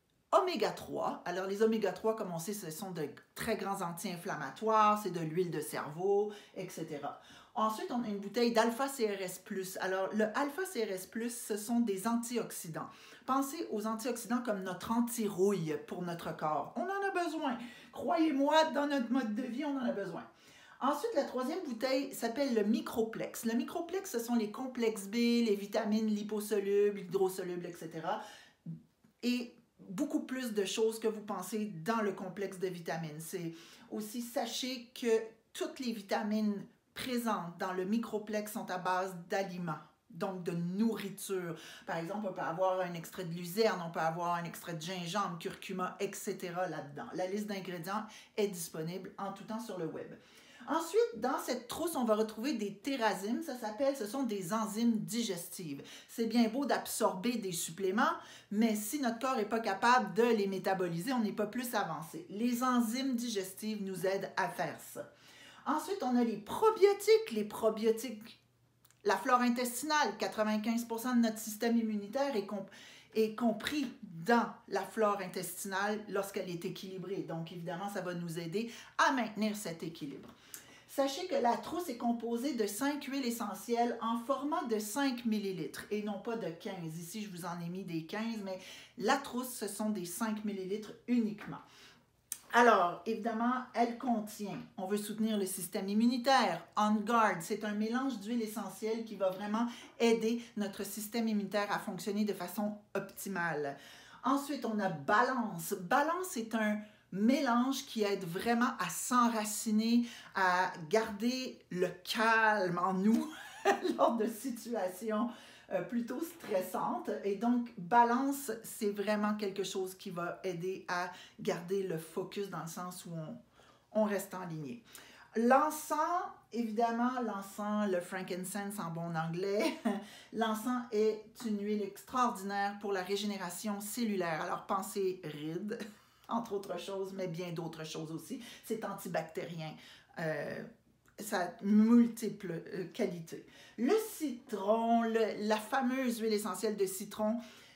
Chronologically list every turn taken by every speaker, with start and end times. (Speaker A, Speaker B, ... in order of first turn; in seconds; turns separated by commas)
Speaker A: 0.3-20.2, Speaker A: 20.8-28.2, Speaker A: 29.2-65.0, Speaker A: 65.7-68.4, Speaker A: 69.0-80.3, Speaker A: 80.9-91.6, Speaker A: 92.5-123.4, Speaker A: 123.9-124.8, Speaker A: 125.3-140.7, Speaker A: 141.2-147.4